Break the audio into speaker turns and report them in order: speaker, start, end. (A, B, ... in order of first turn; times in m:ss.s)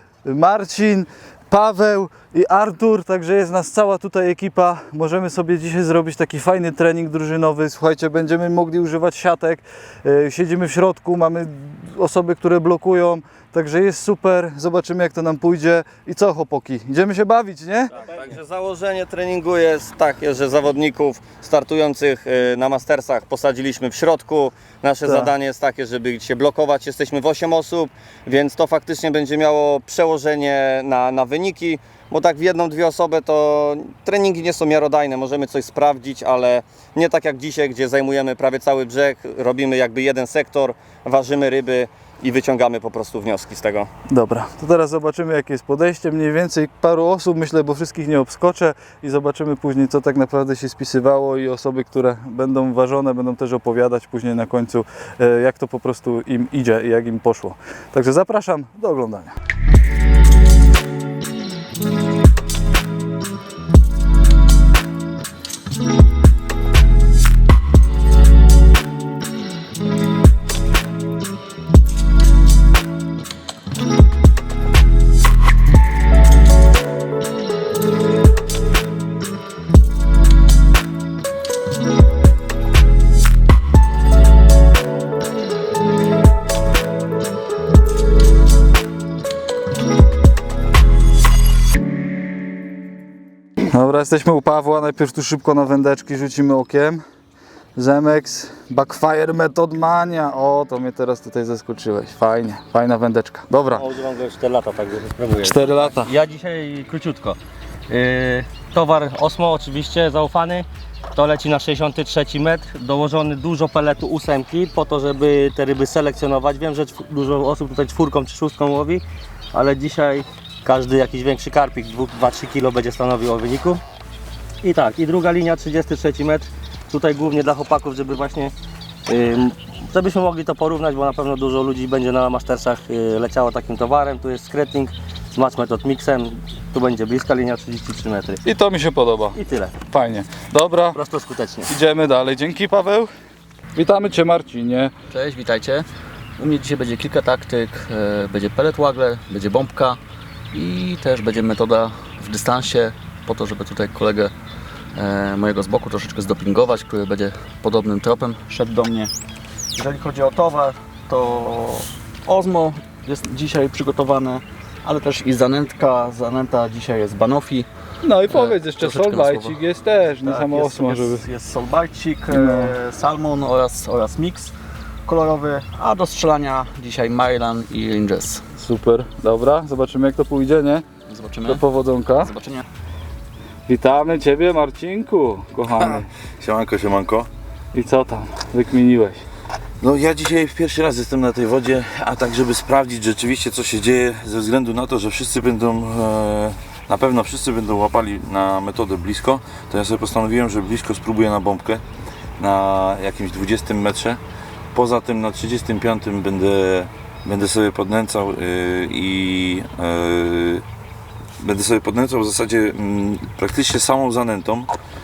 0:00.2-0:17.9 A
0:18.0-0:43.9 B
0:25.0-0:25.3 A
0:44.1-0:59.3 A
1:33.7-1:37.0 A
1:37.8-1:43.9 A
1:43.8-1:47.4 C
1:45.4-1:46.1 A
1:47.9-2:03.8 C
2:04.6-2:08.5 C
2:09.1-2:18.4 C
2:18.4-2:19.4 A
2:19.3-2:19.7 C
2:19.9-2:21.0 A
2:20.9-2:21.7 C
2:21.7-2:23.1 A
2:23.8-2:24.9 A
2:25.1-2:25.9 D
2:26.4-2:30.0 D
2:30.5-2:34.3 D
2:35.0-2:39.1 D
2:39.8-2:47.7 D
2:48.0-2:51.3 A
2:48.2-2:49.6 D
2:50.2-2:54.5 D
2:52.3-2:52.7 A
2:55.1-2:58.4 D
2:58.6-3:00.9 A
3:01.1-3:01.6 D
3:01.4-3:02.3 A
3:02.2-3:02.6 D
3:03.7-3:06.1 A
3:06.4-3:07.3 E
3:07.7-3:09.2 A
3:09.8-3:21.8 E
3:22.4-3:24.2 E
3:24.7-3:30.6 E
3:31.4-3:34.7 E